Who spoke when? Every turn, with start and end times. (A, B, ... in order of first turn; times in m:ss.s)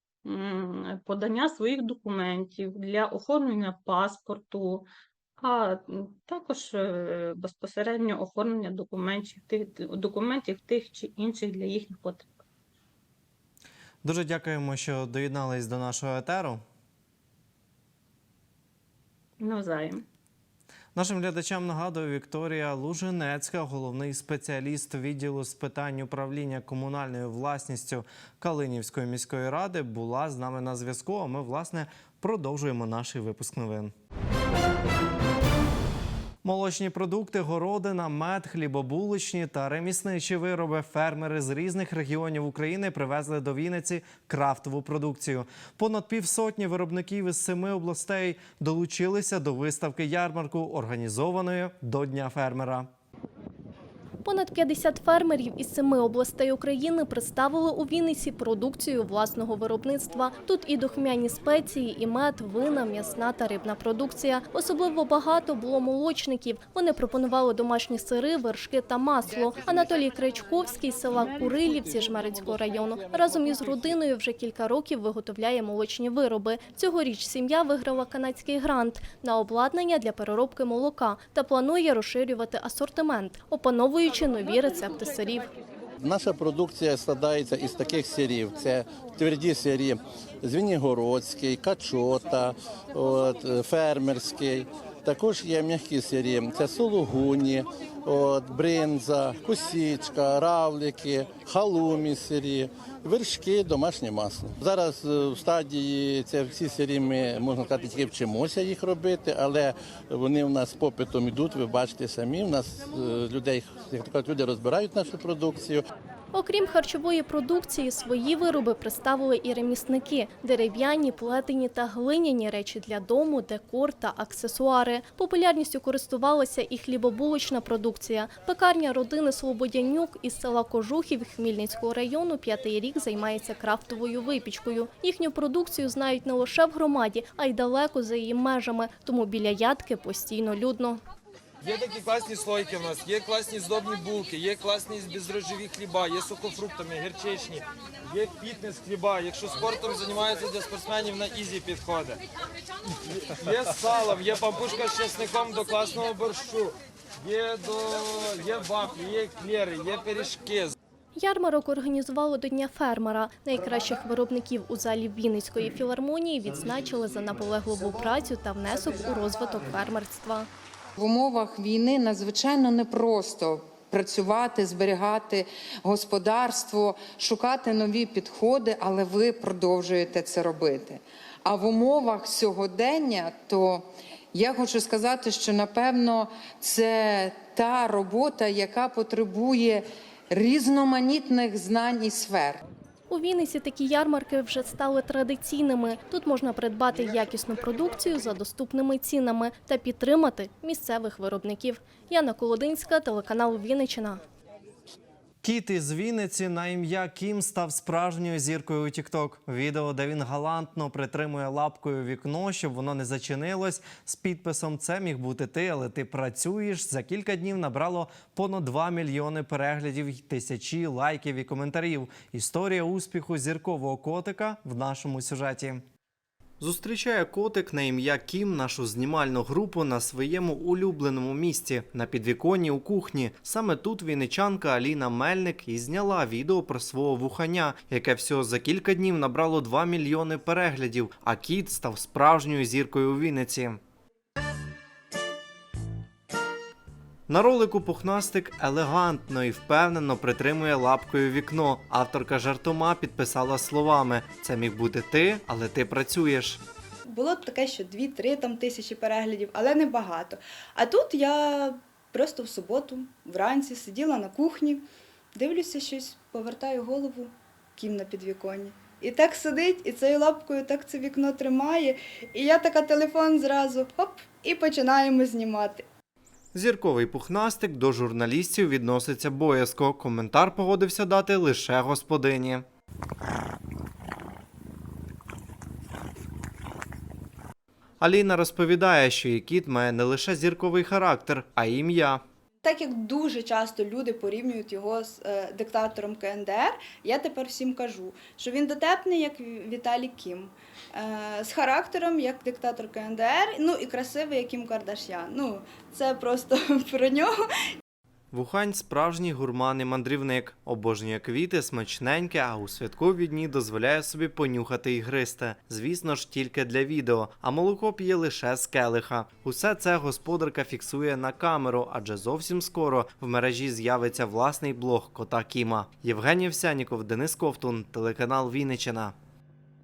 0:00.2-0:04.9 A
0:05.4-0:12.3 A
0:14.0-0:16.6 B
0:19.4-0:20.0 A
0:20.9-0:33.9 B
0:36.4-0:52.9 B
0:54.2-1:25.4 C
1:26.0-1:55.8 D
1:56.3-2:21.0 C
2:21.6-2:32.2 E
2:33.3-2:40.7 E
2:41.2-2:50.5 C
2:51.0-3:12.6 F
3:13.1-3:24.2 C
3:25.4-3:45.8 B
3:46.6-4:03.8 B
4:07.3-4:16.6 B
4:17.1-4:24.8 G
4:25.4-4:35.8 G
4:36.5-4:42.6 B
4:48.0-4:52.2 B
4:52.6-5:07.4 G
5:08.3-5:29.1 B